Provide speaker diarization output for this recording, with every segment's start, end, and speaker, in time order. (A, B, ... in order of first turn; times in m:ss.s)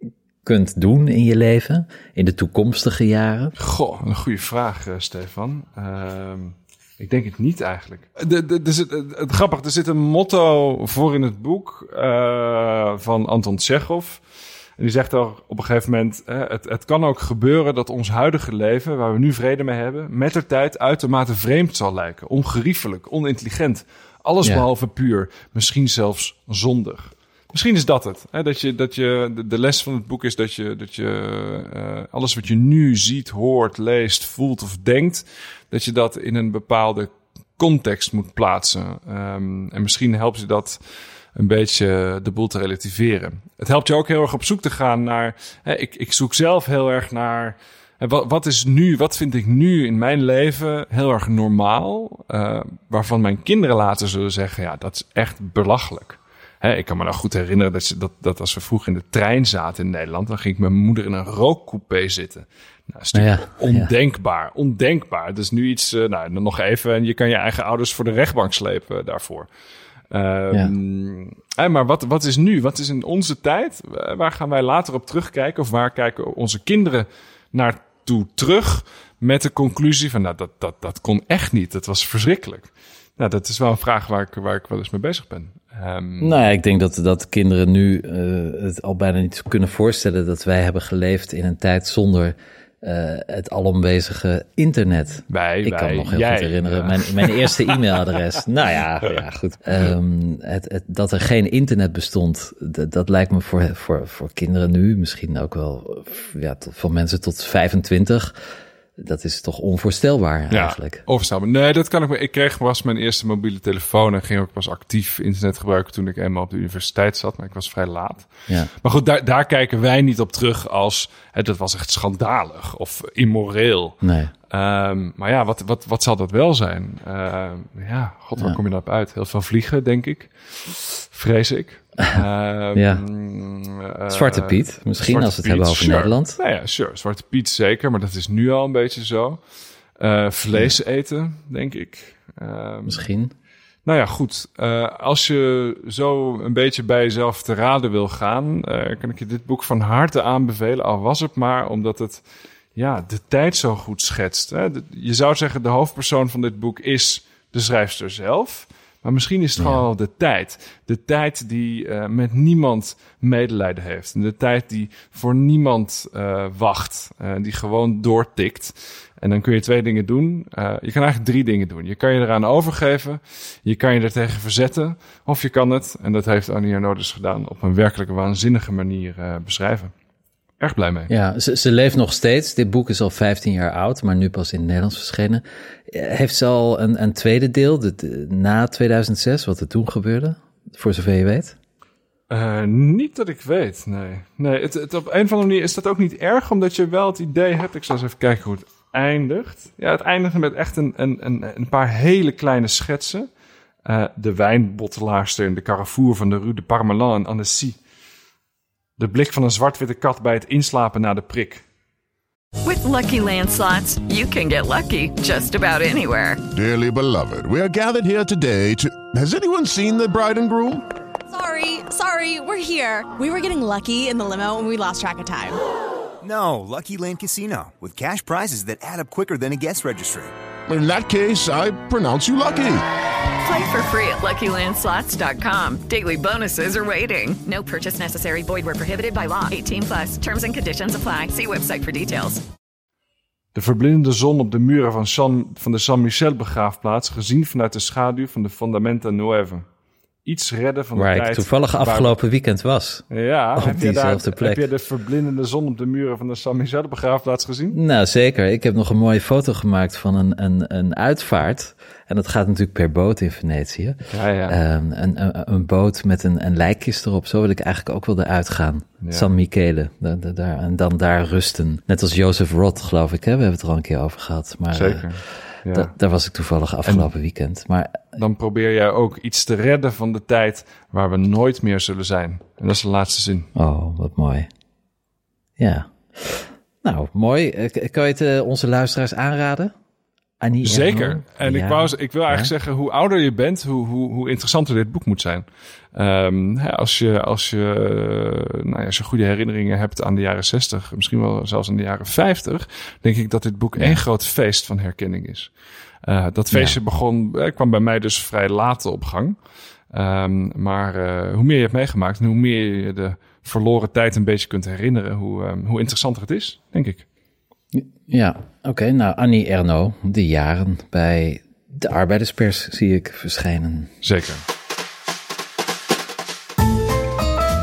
0:00.4-0:03.5 A
0:03.6-0:14.2 B
0:14.8-0:40.8 B
0:41.3-1:09.5 B
1:03.1-1:03.9 A
1:10.1-1:26.4 B
1:26.2-1:48.3 A
1:35.3-1:38.2 B
1:49.0-1:51.0 A
1:50.5-1:58.3 B
1:58.8-2:04.0 B
2:04.0-2:04.3 A
2:04.5-2:19.4 B
2:12.7-2:13.0 A
2:14.1-2:16.4 A
2:20.0-2:23.1 B
2:22.8-2:23.3 A
2:23.8-2:32.2 B
2:32.8-2:59.9 B
2:39.6-2:39.8 A
3:00.6-3:01.1 B
3:01.1-3:11.6 A
3:12.3-3:23.3 B
3:23.8-3:27.8 B
3:29.0-3:31.6 B
3:32.6-3:36.4 C
3:36.5-3:40.8 D
3:41.3-3:45.6 E
3:46.2-3:50.3 F
3:50.7-3:52.8 D
3:53.4-4:02.4 C
4:03.5-4:09.6 B
4:10.2-4:12.2 B
4:10.9-4:14.6 A
4:13.1-4:17.8 B
4:17.7-4:35.1 A
4:24.1-4:24.6 B
4:29.0-4:29.3 B
4:34.7-4:35.9 B
4:35.7-4:38.1 A
4:36.8-4:37.1 B
4:38.2-4:43.5 B
4:43.5-4:44.5 A
4:45.6-4:49.7 A
4:50.4-4:52.5 A
4:50.6-5:05.5 B
5:03.8-5:04.0 A
5:06.0-5:09.4 B
5:06.5-5:06.8 A
5:09.9-5:17.0 B
5:17.7-5:23.9 A
5:24.0-5:24.4 B